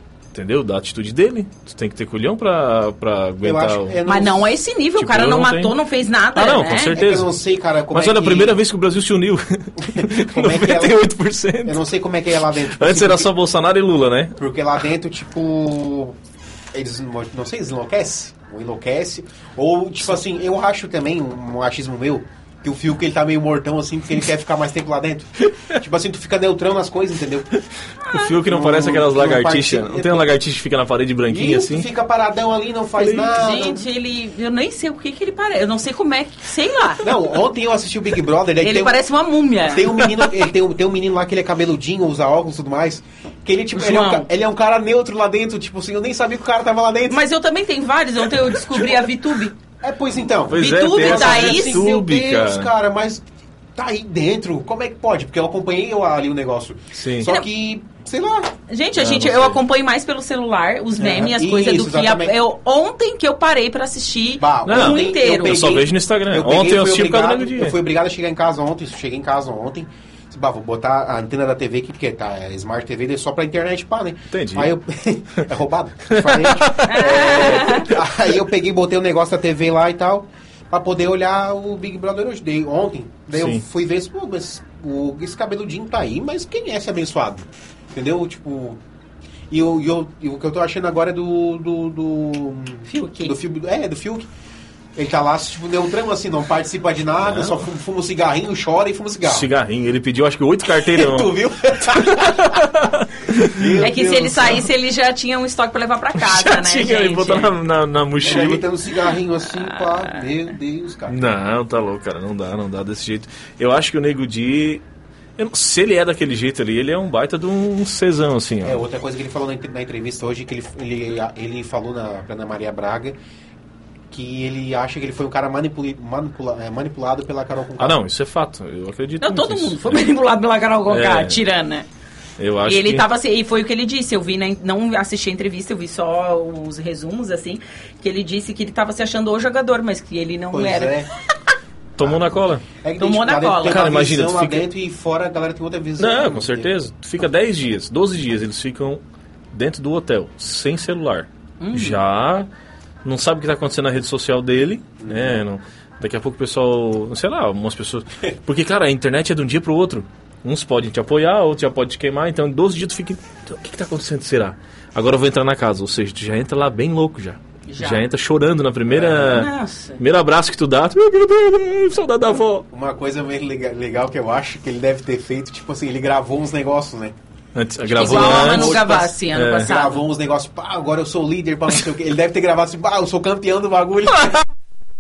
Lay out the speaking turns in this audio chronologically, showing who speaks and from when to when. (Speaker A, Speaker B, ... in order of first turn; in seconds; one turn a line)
Speaker A: 0.3-4.0
Speaker B: 3.4-4.5
Speaker C: 4.0-7.0
Speaker A: 5.0-5.8
Speaker A: 6.3-7.3
Speaker B: 6.9-8.6
Speaker A: 7.9-11.8
Speaker B: 9.8-11.1
Speaker B: 11.7-13.3
Speaker A: 12.5-14.4
Speaker B: 14.4-16.2
Speaker B: 16.7-27.5
Speaker A: 28.1-31.9
Speaker B: 28.4-30.4
Speaker B: 31.3-33.9
Speaker A: 33.0-33.4
Speaker C: 33.1-37.1
Speaker B: 37.0-39.0
Speaker C: 38.6-40.3
Speaker B: 39.6-47.2
Speaker C: 43.7-44.3
Speaker C: 47.1-49.6
Speaker B: 49.8-58.5
Speaker A: 50.5-52.7
Speaker C: 50.5-51.9
Speaker A: 57.0-57.3
Speaker C: 58.7-65.8
Speaker A: 59.0-59.6
Speaker B: 61.0-62.4
Speaker B: 64.4-88.8
Speaker A: 64.7-67.8
Speaker A: 74.3-74.7
Speaker A: 76.1-77.8
Speaker C: 76.8-77.9
Speaker A: 83.3-83.7
Speaker B: 89.5-94.3
Speaker C: 92.9-93.4
Speaker B: 95.0-99.5
Speaker A: 97.2-97.7
Speaker A: 99.2-103.9
Speaker B: 100.8-102.7
Speaker B: 103.5-104.7
Speaker C: 103.8-107.5
Speaker A: 106.2-108.6
Speaker B: 108.2-111.3
Speaker C: 109.6-110.2
Speaker A: 111.1-114.8
Speaker A: 115.4-118.8
Speaker B: 118.6-123.2
Speaker B: 124.1-128.0
Speaker A: 127.8-130.1
Speaker C: 129.2-131.9
Speaker A: 130.9-131.4
Speaker A: 132.4-133.1
Speaker C: 132.7-141.0
Speaker B: 140.5-141.1
Speaker A: 142.0-142.7
Speaker B: 142.0-146.7
Speaker C: 143.0-143.9
Speaker A: 143.6-144.7
Speaker A: 146.0-149.0
Speaker A: 149.5-152.5
Speaker C: 151.6-152.0
Speaker A: 153.0-172.7
Speaker B: 155.0-155.4
Speaker C: 167.7-168.0
Speaker B: 168.9-169.5
Speaker C: 169.3-170.0
Speaker B: 172.7-177.2
Speaker A: 177.6-179.8
Speaker C: 177.9-180.0
Speaker B: 178.0-184.4